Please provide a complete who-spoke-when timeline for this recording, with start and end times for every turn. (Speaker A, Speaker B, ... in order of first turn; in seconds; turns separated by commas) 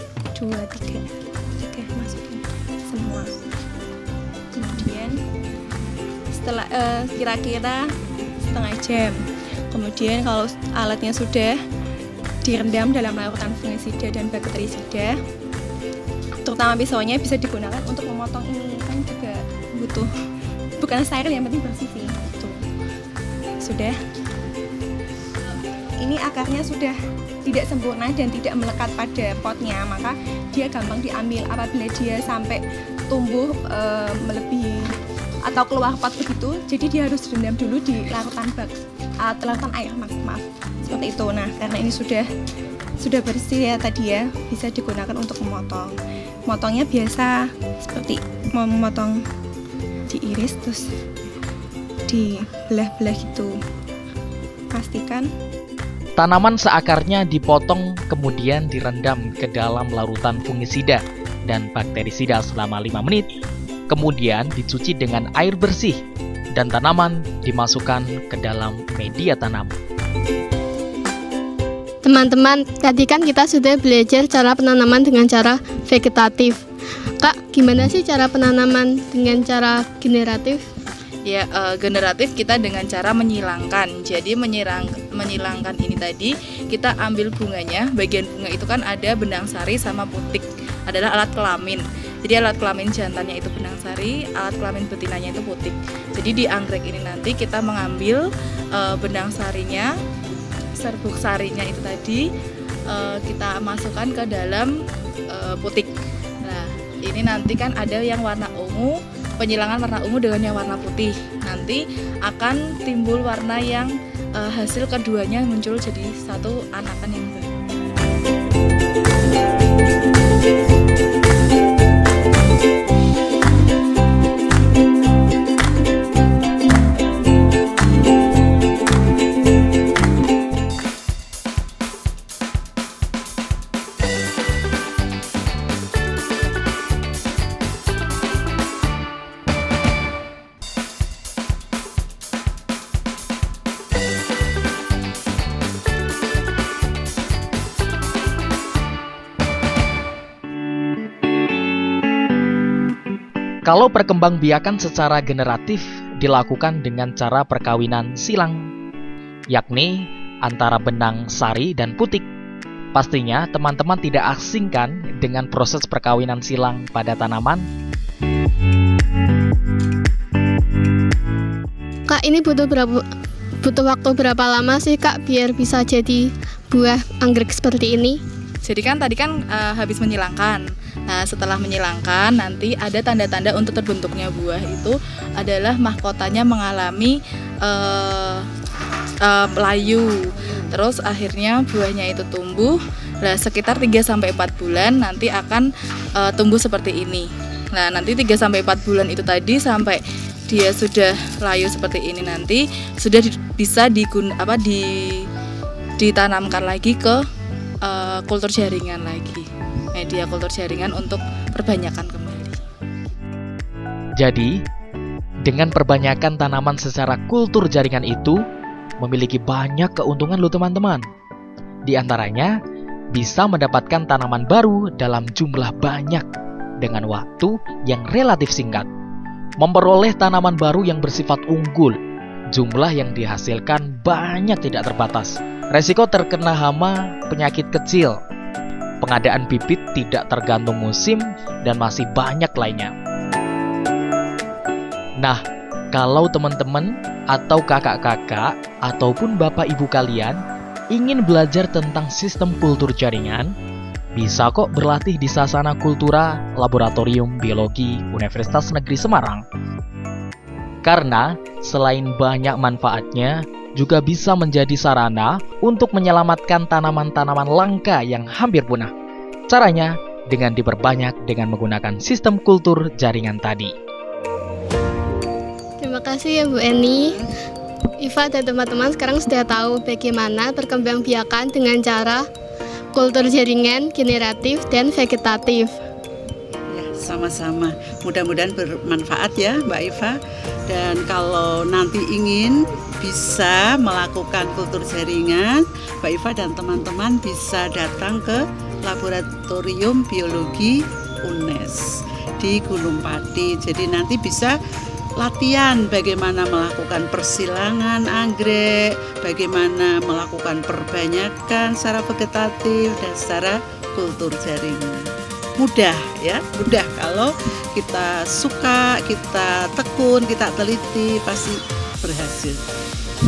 Speaker A: 0.3-3.3, Speaker A: 4.5-5.2, Speaker A: 6.3-9.2, Speaker A: 9.7-11.6, Speaker A: 12.4-15.2, Speaker A: 16.4-20.1, Speaker A: 20.8-22.6, Speaker A: 23.6-24.0, Speaker A: 26.0-34.9, Speaker A: 35.5-38.7, Speaker A: 39.2-42.3, Speaker A: 43.0-45.9, Speaker A: 46.5-49.2, Speaker A: 50.1-50.9, Speaker A: 52.1-53.5, Speaker A: 54.7-55.3, Speaker B: 56.2-63.3, Speaker B: 63.9-66.0, Speaker B: 66.5-69.7, Speaker C: 72.0-76.6, Speaker C: 77.2-80.6, Speaker D: 81.2-99.9, Speaker D: 100.8-102.2, Speaker D: 102.9-104.7, Speaker D: 105.3-117.6, Speaker B: 153.7-158.7, Speaker B: 159.5-162.2, Speaker B: 162.9-167.7, Speaker C: 172.1-173.0, Speaker C: 173.6-178.2, Speaker D: 178.6-188.5, Speaker D: 189.2-205.3, Speaker D: 206.0-207.2, Speaker D: 207.8-212.7, Speaker B: 214.2-214.6, Speaker B: 215.4-218.4, Speaker B: 219.0-221.1, Speaker B: 221.9-222.5, Speaker B: 223.1-226.2, Speaker B: 226.8-228.9, Speaker B: 229.6-232.0, Speaker B: 232.5-238.2, Speaker B: 239.0-242.9, Speaker B: 245.9-250.4, Speaker B: 250.9-253.5, Speaker B: 254.2-259.4, Speaker B: 260.8-268.9, Speaker B: 269.5-273.7, Speaker C: 275.8-277.1, Speaker E: 276.9-277.2, Speaker C: 278.0-282.2, Speaker C: 282.9-285.7, Speaker E: 286.7-290.2, Speaker E: 290.7-304.5, Speaker E: 305.2-322.6